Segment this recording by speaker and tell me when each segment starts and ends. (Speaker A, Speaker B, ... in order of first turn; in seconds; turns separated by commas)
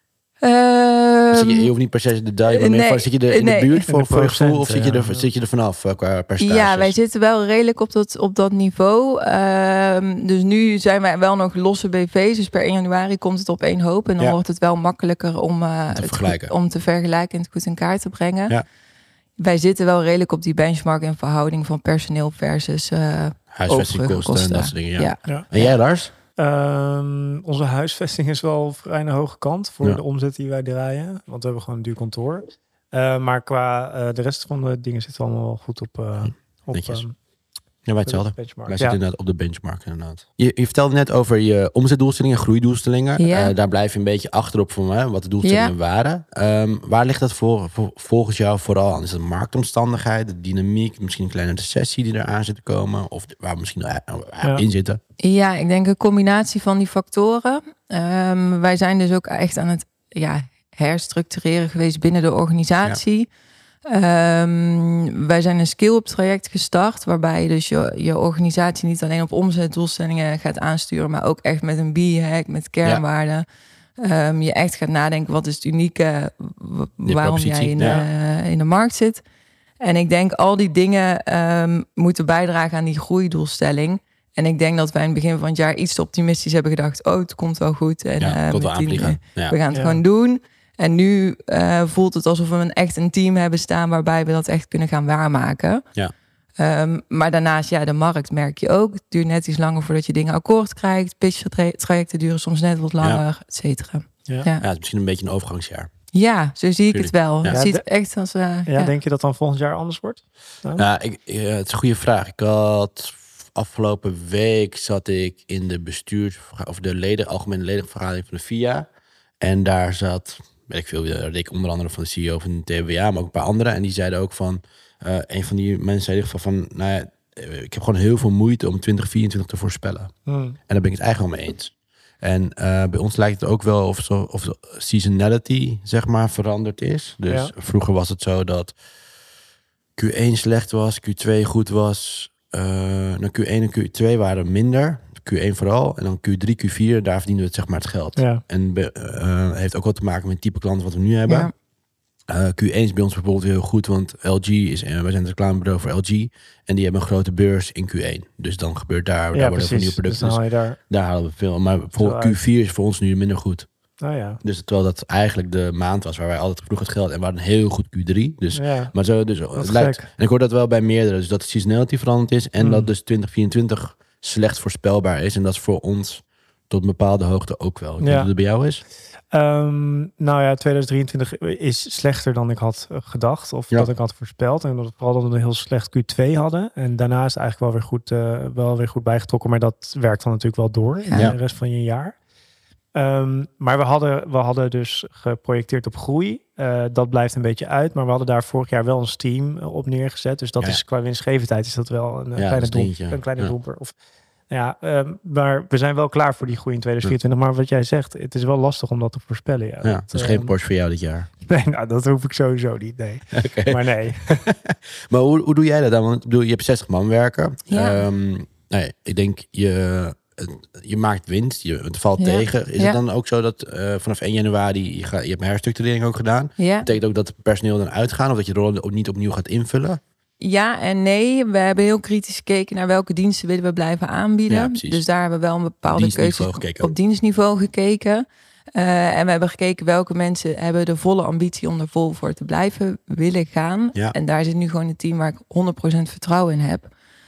Speaker A: 0.4-1.7, Speaker B: 1.3-6.9, Speaker A: 2.5-3.9, Speaker C: 3.9-5.3, Speaker A: 6.4-18.6, Speaker B: 15.9-16.5, Speaker A: 19.4-25.7, Speaker B: 23.5-26.1, Speaker C: 26.4-37.1, Speaker B: 36.2-37.0, Speaker B: 37.9-55.0, Speaker C: 38.0-39.0, Speaker A: 43.2-43.5, Speaker A: 45.4-45.7, Speaker A: 55.2-63.3, Speaker A: 63.9-73.5, Speaker A: 74.0-79.2, Speaker B: 77.0-78.0, Speaker A: 79.8-95.8, Speaker B: 88.2-89.5, Speaker C: 89.7-90.0, Speaker A: 96.6-104.6, Speaker B: 104.6-105.9, Speaker A: 106.1-108.9, Speaker B: 106.9-107.6, Speaker C: 107.5-107.8, Speaker C: 108.7-110.8, Speaker B: 110.8-118.9, Speaker B: 119.4-130.1, Speaker C: 130.3-130.6, Speaker B: 130.7-138.8, Speaker B: 140.0-151.5, Speaker C: 148.2-148.4, Speaker A: 151.3-151.5, Speaker B: 152.3-163.7, Speaker C: 159.3-160.8, Speaker C: 162.0-162.4, Speaker C: 164.0-164.4, Speaker B: 164.4-178.8, Speaker C: 168.5-168.9, Speaker C: 169.6-170.1, Speaker C: 172.6-172.9, Speaker C: 178.0-178.3, Speaker C: 179.3-192.2, Speaker C: 192.9-203.9, Speaker B: 202.3-203.5, Speaker C: 204.5-210.5, Speaker B: 209.8-211.3, Speaker C: 211.4-214.4, Speaker B: 213.3-230.0, Speaker A: 217.7-218.0, Speaker A: 222.2-223.0, Speaker A: 226.6-226.9, Speaker A: 230.4-246.9, Speaker B: 234.5-235.0, Speaker B: 235.9-236.9